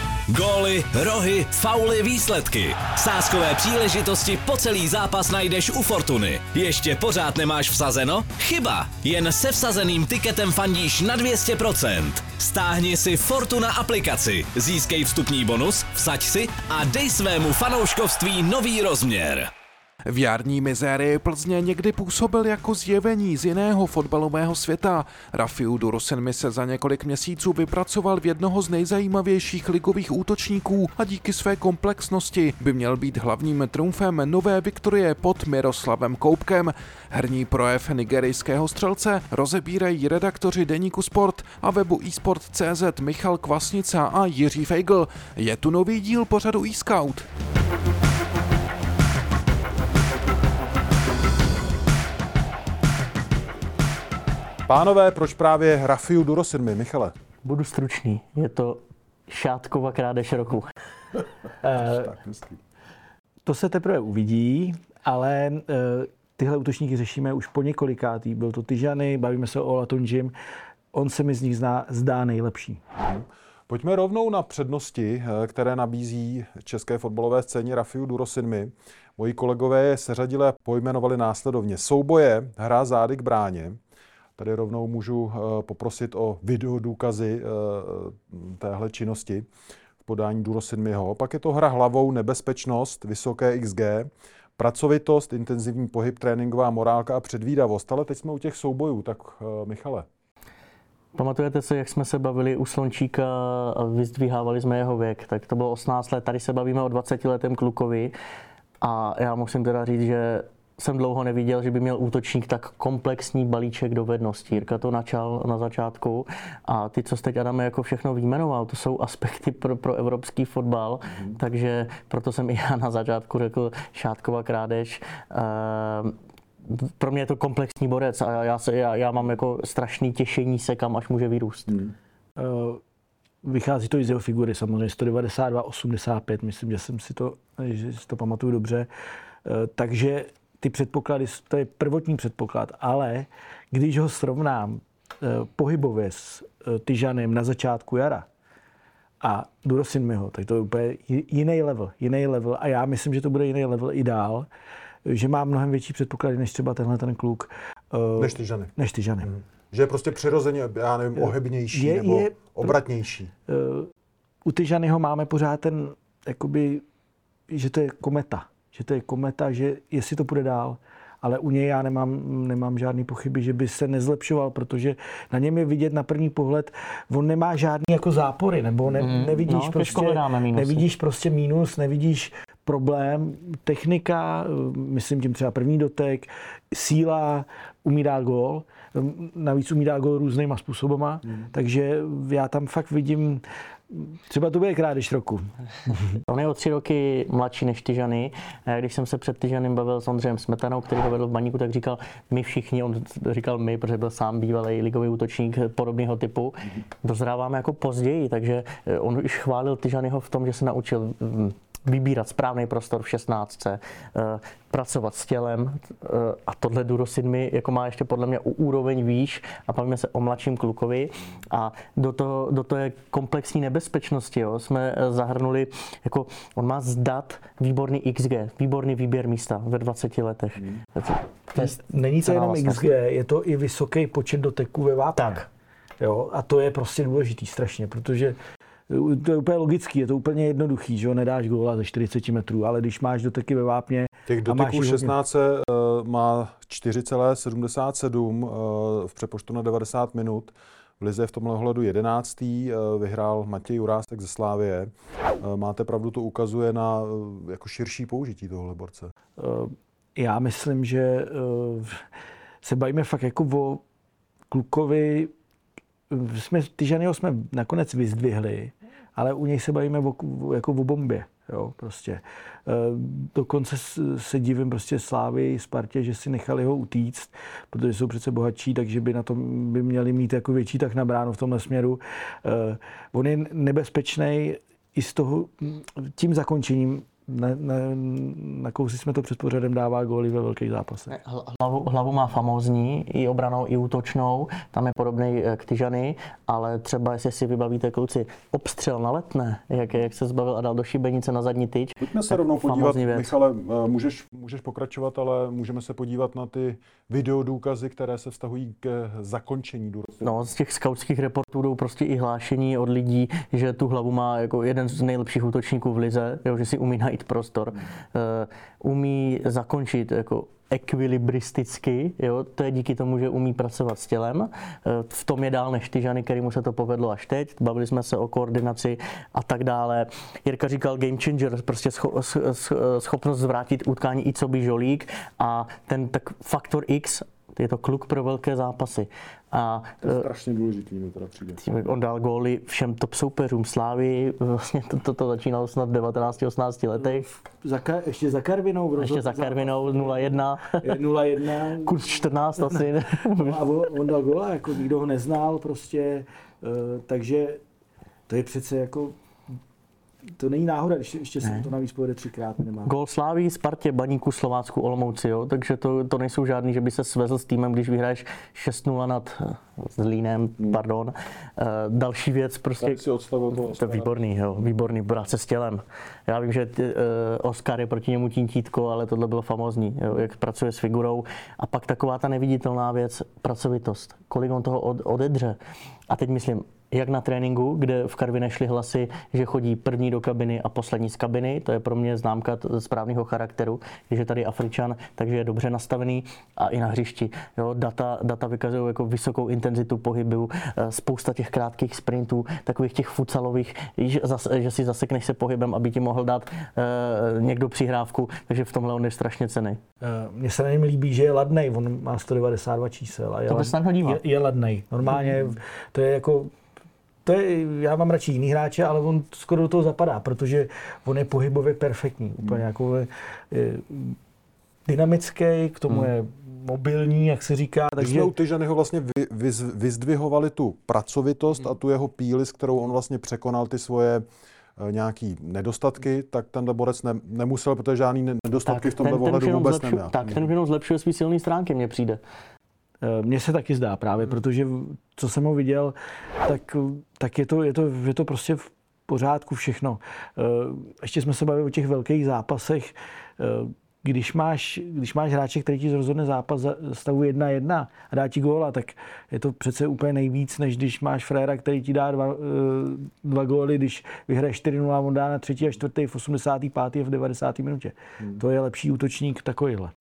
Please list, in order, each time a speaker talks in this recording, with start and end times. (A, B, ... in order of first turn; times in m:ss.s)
0:00.3-0:19.5 A
0:20.0-0:47.3 B
0:54.7-0:57.1 C
0:57.4-1:00.7 D
1:01.6-1:02.1 E
1:01.7-1:02.6 C
1:03.4-1:10.3 E
1:10.9-1:12.8 E
1:13.0-1:23.8 C
1:24.4-1:29.4 C
1:30.0-1:40.1 C
1:41.1-1:48.1 D
1:48.8-2:11.8 D
2:12.4-2:12.8 E
2:13.4-2:18.9 E
2:19.4-2:28.3 E
2:29.2-2:34.5 E
2:35.0-2:39.3 E
2:38.2-2:38.7 C
2:39.3-2:43.3 C
2:41.2-2:42.8 E
2:43.5-2:43.9 E
2:44.4-2:46.8 E
2:47.5-3:16.0 E
2:59.0-3:00.8 D
3:16.3-3:52.9 D
3:51.5-3:55.5 E
3:55.2-3:55.4 D
3:56.0-4:05.2 E
4:04.3-4:19.1 C
4:19.4-4:22.0 E
4:22.6-4:23.8 E
4:24.5-4:25.3 E
4:26.1-4:51.1 E
4:51.1-5:03.3 D
5:02.0-5:10.4 C
5:10.2-5:40.2 D
5:40.0-5:41.6 C
5:41.6-5:47.2 D
5:47.0-5:57.6 E
5:49.0-5:51.0 D
5:51.8-5:53.6 D
5:58.3-5:59.2 E
6:00.4-6:02.9 E
6:01.4-6:01.7 D
6:02.8-6:25.6 D
6:12.8-6:14.1 C
6:26.1-6:49.8 D
6:50.0-6:56.5 E
6:53.5-6:54.2 D
6:57.2-7:04.2 E
7:04.8-7:08.3 E
7:08.0-7:14.2 C
7:14.8-7:20.4 C
7:18.6-7:22.2 D
7:23.0-7:49.9 E